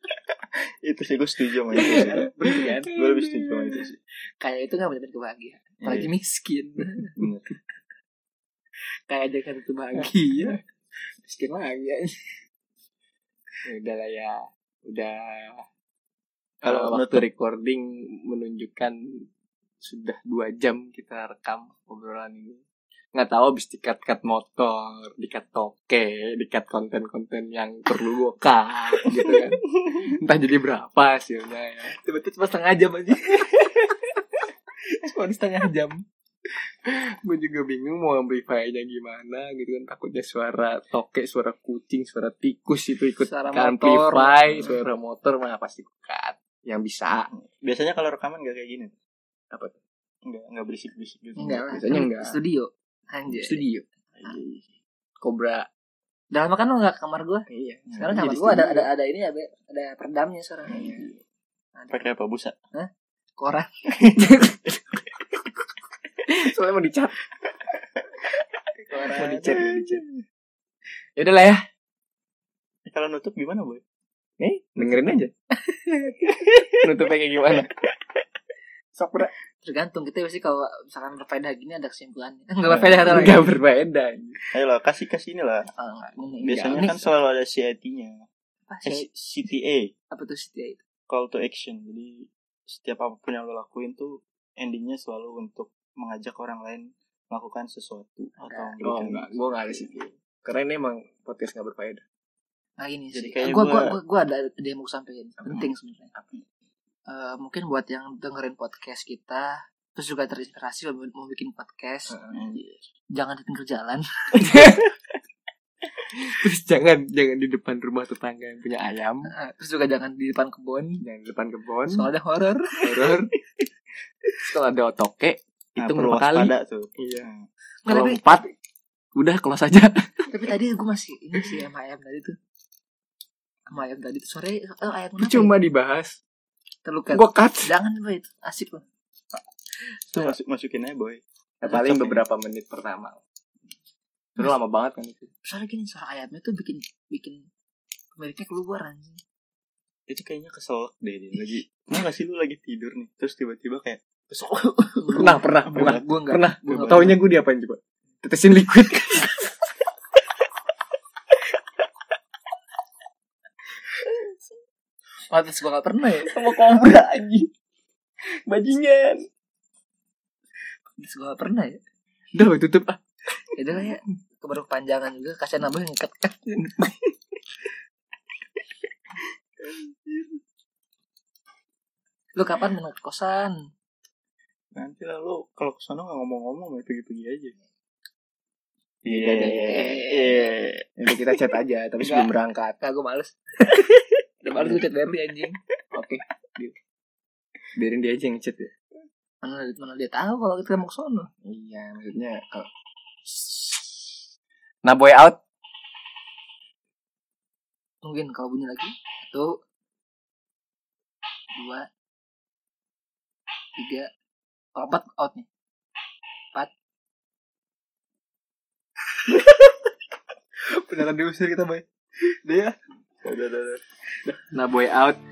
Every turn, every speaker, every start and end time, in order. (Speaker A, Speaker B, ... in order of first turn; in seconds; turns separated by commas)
Speaker A: 0.3-4.0, Speaker B: 1.7-2.9, Speaker C: 1.8-3.5, Speaker B: 4.4-7.2, Speaker A: 5.8-6.1, Speaker A: 7.2-7.5, Speaker B: 9.1-10.6, Speaker C: 10.0-10.6, Speaker B: 11.2-12.4, Speaker C: 13.7-15.7, Speaker C: 16.6-19.2, Speaker A: 16.6-17.2, Speaker C: 19.8-22.6, Speaker C: 23.1-32.0, Speaker B: 31.9-34.1, Speaker B: 35.0-36.0, Speaker C: 36.9-47.3, Speaker B: 43.2-44.8, Speaker A: 47.3-48.9, Speaker C: 49.5-49.8, Speaker A: 50.2-51.7, Speaker B: 51.4-53.6, Speaker C: 51.4-52.4, Speaker C: 53.3-54.4, Speaker A: 54.2-54.6, Speaker C: 55.2-55.7, Speaker B: 56.3-57.5, Speaker C: 57.5-58.9, Speaker A: 57.9-58.4, Speaker B: 58.0-61.0, Speaker C: 60.7-61.0, Speaker A: 60.8-61.1, Speaker B: 61.8-62.0, Speaker A: 61.9-62.6, Speaker B: 62.7-64.7, Speaker A: 64.0-64.3, Speaker C: 66.3-67.1, Speaker B: 68.8-69.7, Speaker C: 69.0-70.1, Speaker A: 69.5-70.0, Speaker C: 71.2-71.6, Speaker A: 72.9-73.8, Speaker C: 74.4-75.3, Speaker A: 74.8-75.2, Speaker B: 75.7-76.2, Speaker C: 76.2-77.8, Speaker C: 79.0-79.3, Speaker B: 79.6-83.5, Speaker C: 82.7-84.4, Speaker A: 84.5-85.7, Speaker B: 85.8-87.0, Speaker A: 86.4-88.2, Speaker C: 86.5-87.0, Speaker B: 88.7-89.1, Speaker A: 88.8-89.9, Speaker B: 90.1-90.8, Speaker A: 91.1-100.0, Speaker B: 98.4-98.8, Speaker C: 98.8-102.0, Speaker B: 102.8-106.1, Speaker A: 103.1-104.0, Speaker B: 107.1-112.2, Speaker C: 112.1-112.4, Speaker A: 112.3-112.8, Speaker B: 113.2-114.8, Speaker C: 114.4-115.0, Speaker C: 116.1-119.3, Speaker B: 119.2-121.0, Speaker C: 121.0-122.1, Speaker B: 121.9-123.1, Speaker C: 122.8-123.3, Speaker C: 124.4-127.3, Speaker A: 125.8-127.5, Speaker B: 127.9-128.4, Speaker C: 127.9-128.5, Speaker C: 129.2-130.3, Speaker B: 130.3-132.4, Speaker B: 133.7-135.5, Speaker C: 135.2-136.2, Speaker B: 136.8-138.8, Speaker C: 137.1-137.7, Speaker A: 140.1-142.2, Speaker C: 141.6-143.2, Speaker C: 144.4-145.3, Speaker B: 145.4-147.4, Speaker B: 148.2-149.2, Speaker A: 150.1-154.0, Speaker B: 154.3-157.2, Speaker C: 155.1-159.6, Speaker A: 155.8-156.0, Speaker A: 156.8-157.2, Speaker B: 165.3-166.4, Speaker C: 166.2-167.5, Speaker C: 168.5-169.2, Speaker B: 171.0-171.8, Speaker C: 172.3-173.0, Speaker B: 173.6-176.7, Speaker C: 176.6-177.1, Speaker A: 179.6-180.4, Speaker B: 182.4-183.6, Speaker A: 184.8-187.5, Speaker A: 189.0-190.9, Speaker C: 189.1-190.0, Speaker B: 189.4-190.6, Speaker C: 191.0-192.8, Speaker B: 192.0-195.6, Speaker C: 194.6-194.8, Speaker C: 195.9-196.8, Speaker C: 197.8-198.7, Speaker B: 199.4-201.3, Speaker C: 201.4-202.7, Speaker C: 203.2-204.2, Speaker C: 204.8-205.4, Speaker B: 208.0-209.5, Speaker B: 211.6-211.9, Speaker B: 213.8-214.1, Speaker B: 214.8-215.5, Speaker B: 219.3-219.7, Speaker B: 220.7-222.8, Speaker A: 223.2-223.8, Speaker C: 224.3-225.2